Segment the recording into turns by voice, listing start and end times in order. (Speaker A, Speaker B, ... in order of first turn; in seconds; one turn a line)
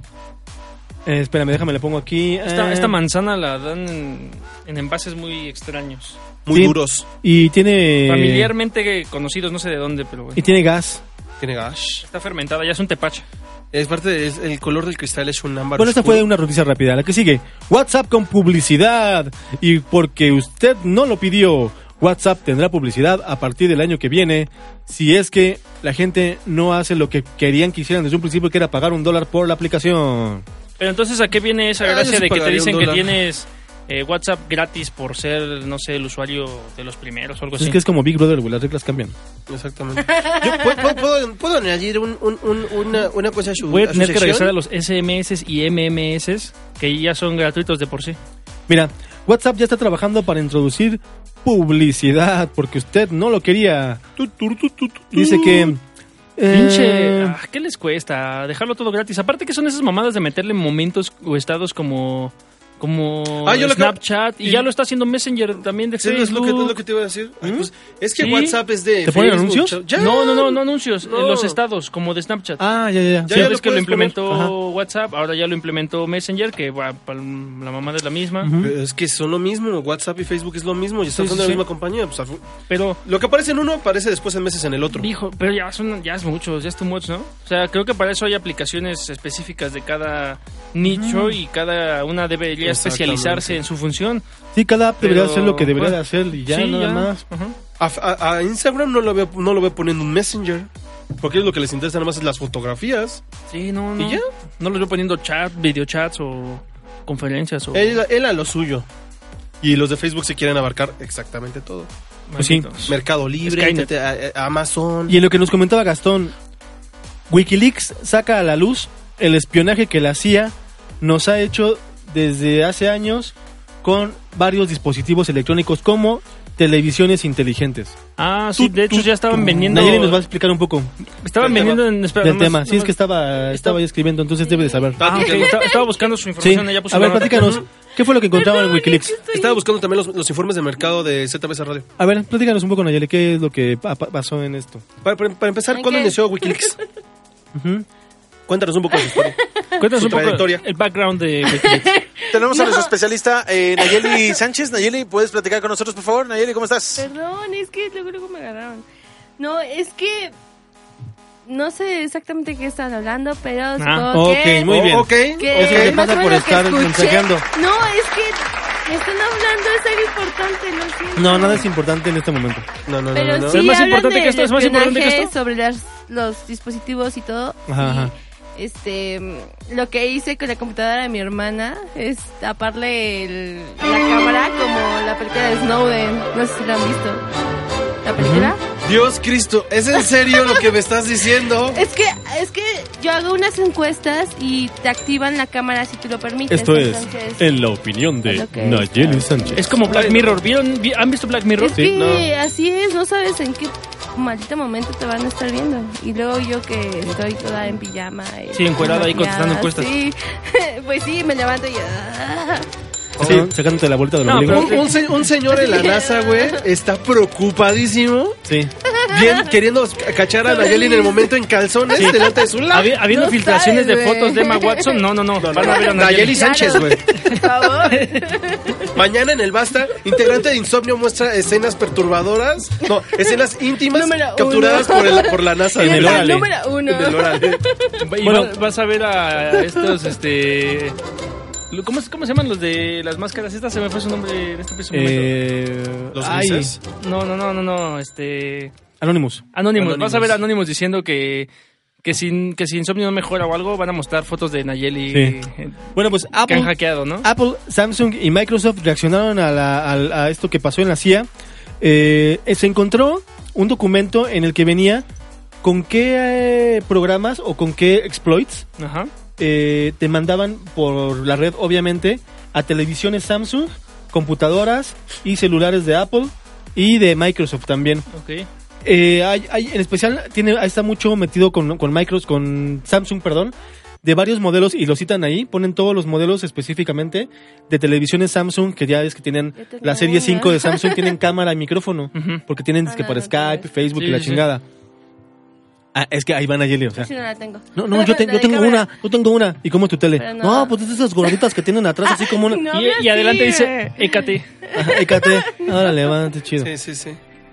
Speaker A: 1.1-3.0
Speaker B: 2.5-6.2
Speaker C: 6.5-7.1
Speaker A: 6.5-8.5
Speaker B: 8.1-10.4
Speaker A: 10.3-11.0
Speaker C: 11.4-12.1
Speaker B: 12.0-13.2
Speaker C: 13.7-16.2
Speaker A: 15.8-30.4
Speaker B: 30.8-37.8
Speaker C: 31.8-33.2
Speaker A: 37.6-39.1
Speaker C: 39.5-44.5
Speaker B: 43.6-48.2
Speaker A: 48.7-55.8
Speaker B: 55.3-55.6
Speaker A: 56.4-57.4
Speaker B: 56.5-66.8
Speaker C: 63.4-64.7
Speaker C: 66.0-71.6
Speaker A: 67.4-67.7
Speaker B: 68.2-68.6
Speaker A: 69.0-69.8
Speaker B: 70.0-72.7
Speaker A: 72.6-73.5
Speaker C: 73.3-74.2
Speaker B: 73.3-78.5
Speaker A: 74.3-74.5
Speaker A: 78.4-78.7
Speaker C: 78.6-82.5
Speaker A: 81.1-81.6
Speaker B: 81.2-81.6
Speaker B: 82.7-83.0
Speaker C: 83.0-85.1
Speaker B: 84.9-94.2
Speaker A: 90.8-91.4
Speaker C: 92.6-93.6
Speaker A: 94.5-97.2
Speaker B: 95.0-97.6
Speaker C: 97.8-103.2
Speaker B: 103.5-108.0
Speaker C: 104.0-104.3
Speaker C: 107.7-108.9
Speaker C: 109.6-111.9
Speaker B: 112.3-113.9
Speaker A: 112.4-112.7
Speaker C: 112.8-115.2
Speaker A: 115.1-116.3
Speaker A: 117.3-128.0
Speaker B: 128.2-130.2
Speaker A: 128.6-130.9
Speaker B: 131.2-132.9
Speaker C: 131.4-131.8
Speaker A: 132.2-135.3
Speaker B: 133.5-133.8
Speaker D: 134.4-135.9
Speaker C: 135.0-135.8
Speaker B: 135.0-137.6
Speaker A: 136.4-139.2
Speaker C: 137.3-137.7
Speaker D: 138.4-139.6
Speaker C: 139.3-141.9
Speaker A: 142.0-144.8
Speaker C: 145.0-146.8
Speaker D: 145.7-146.8
Speaker A: 147.5-147.9
Speaker C: 148.5-150.6
Speaker D: 148.9-149.7
Speaker B: 149.8-151.9
Speaker D: 151.5-152.9
Speaker E: 152.3-157.1
Speaker D: 153.8-154.4
Speaker D: 157.0-158.8
Speaker D: 159.4-160.3
Speaker D: 161.5-164.7
Speaker B: 163.8-164.1
Speaker A: 164.1-167.4
Speaker C: 164.7-166.0
Speaker D: 165.4-171.7
Speaker A: 171.2-172.7
Speaker C: 172.9-173.6
Speaker D: 173.1-187.2
Speaker B: 173.5-175.3
Speaker A: 177.7-178.1
Speaker D: 188.0-188.6
Speaker A: 188.2-188.5
Speaker C: 188.8-191.8
Speaker D: 190.0-190.8
Speaker D: 191.7-197.5
Speaker A: 196.5-199.7
Speaker D: 198.2-199.7
Speaker B: 199.6-201.8
Speaker C: 199.9-200.4
Speaker D: 201.6-212.7
Speaker C: 201.9-202.3
Speaker B: 208.5-209.9
Speaker C: 213.2-213.5
Speaker A: 213.2-214.8
Speaker B: 214.2-214.9
Speaker C: 214.4-218.4
Speaker D: 214.7-216.6
Speaker A: 218.5-218.7
Speaker D: 218.9-219.5
Speaker C: 219.1-222.9
Speaker D: 220.4-221.3
Speaker B: 222.0-228.3
Speaker D: 222.1-222.5
Speaker D: 223.0-225.0
Speaker C: 225.4-227.1
Speaker D: 225.6-229.0
Speaker C: 228.9-237.7
Speaker D: 232.9-233.4
Speaker D: 233.9-238.0
Speaker A: 235.8-236.5
Speaker B: 238.0-241.0
Speaker A: 238.2-238.5
Speaker B: 241.7-245.3
Speaker A: 244.9-246.8
Speaker C: 246.1-246.8
Speaker B: 247.0-248.7
Speaker A: 249.0-249.4
Speaker B: 249.5-251.5
Speaker C: 249.7-250.4
Speaker B: 252.0-255.8
Speaker A: 255.9-261.3
Speaker B: 256.5-257.3
Speaker A: 261.8-265.1
Speaker A: 265.6-268.7
Speaker B: 268.8-269.1
Speaker A: 269.4-278.1
Speaker B: 278.1-278.5
Speaker A: 278.8-294.6
Speaker D: 289.6-291.2
Speaker B: 292.1-292.4
Speaker D: 292.9-293.7
Speaker B: 294.0-294.4
Speaker A: 295.9-297.1
Speaker D: 297.0-298.9
Speaker A: 297.8-302.6
Speaker D: 300.2-300.7
Speaker D: 302.1-306.0
Speaker B: 302.7-304.5
Speaker A: 304.8-306.7
Speaker C: 306.6-307.2